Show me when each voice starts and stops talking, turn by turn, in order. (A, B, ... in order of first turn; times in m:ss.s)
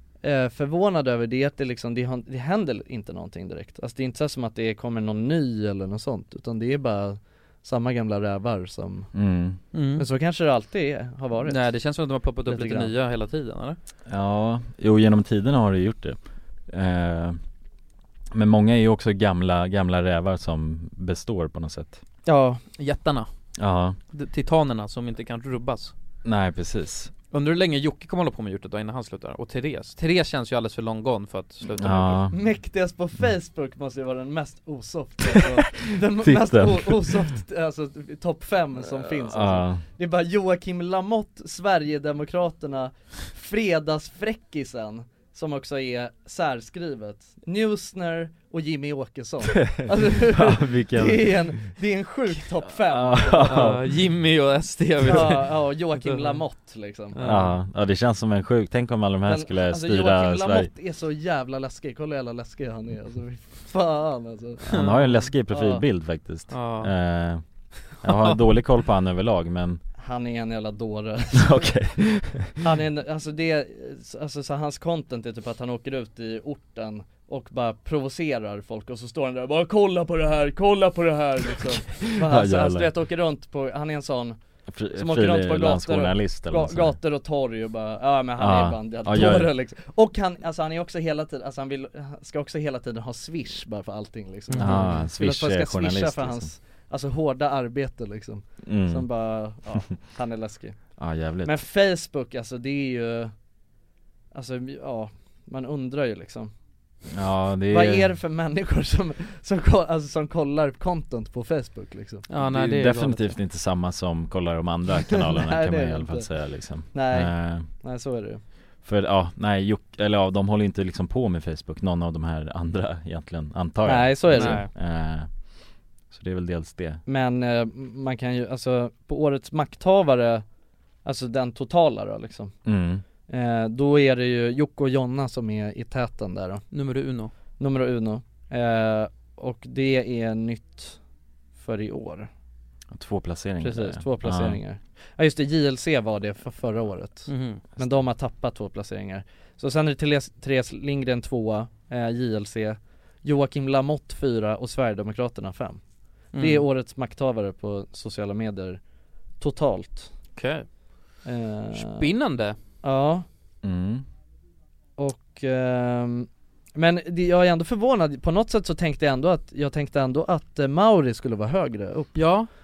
0:00.2-0:09.1 A
0:09.1-0:09.6 B
0:09.7-0:10.1 C
0:10.0-0:11.7 A
0:11.5-0:13.8 C
0:12.5-0:12.9 A
0:14.1-0:17.4 B
0:18.3-0:22.0 B
0:22.3-0:22.6 A
0:22.8-0:23.3 C
0:23.6-0:24.0 B
0:24.1-0:25.9 C
0:26.2-0:27.1 B
0:27.3-0:32.2 C
0:31.8-0:32.4 B
0:32.3-0:53.7 A
0:36.2-0:37.1 B
0:39.1-0:39.8 B
0:49.6-0:51.5 B
0:52.9-0:53.8 B
0:53.4-0:56.4 C
0:55.0-0:57.2 A
0:57.1-0:57.6 C
0:57.2-1:00.7 B
0:59.3-1:04.6 A
1:04.7-1:05.2 C
1:04.7-1:07.4 B
1:05.5-1:05.9 A
1:06.5-1:06.9 C
1:08.0-1:09.8 B
1:08.0-1:08.4 C
1:10.0-1:11.7 A
1:11.4-1:12.6 B
1:12.6-1:24.4 A
1:22.2-1:22.9 B
1:24.7-1:27.0 B
1:25.0-1:43.3 A
1:28.4-1:29.5 B
1:34.5-1:35.0 C
1:34.6-1:36.5 B
1:38.7-1:39.0 B
1:41.0-1:41.5 B
1:44.3-1:46.5 A
1:47.1-1:48.1 B
1:47.7-1:52.3 A
1:52.3-1:53.4 C
1:52.4-1:57.7 B
1:55.3-1:56.3 A
1:56.8-1:58.4 A
1:58.8-2:05.6 B
2:03.8-2:04.7 A
2:04.3-2:04.7 C
2:06.1-2:07.0 B
2:07.1-2:10.4 A
2:11.0-2:12.6 A
2:12.7-2:13.0 B
2:13.3-2:16.7 A
2:16.7-2:17.3 C
2:17.6-2:21.0 A
2:21.6-2:22.3 A
2:22.9-2:24.6 B
2:23.6-2:35.8 A
2:27.3-2:27.6 C
2:36.3-2:38.8 A
2:36.3-2:36.6 C
2:39.4-2:40.1 A
2:40.4-2:40.7 C
2:41.2-2:42.1 A
2:41.8-2:42.6 C
2:42.8-2:43.2 A
2:43.6-2:44.0 B
2:45.0-2:52.4 A
2:52.2-2:52.5 C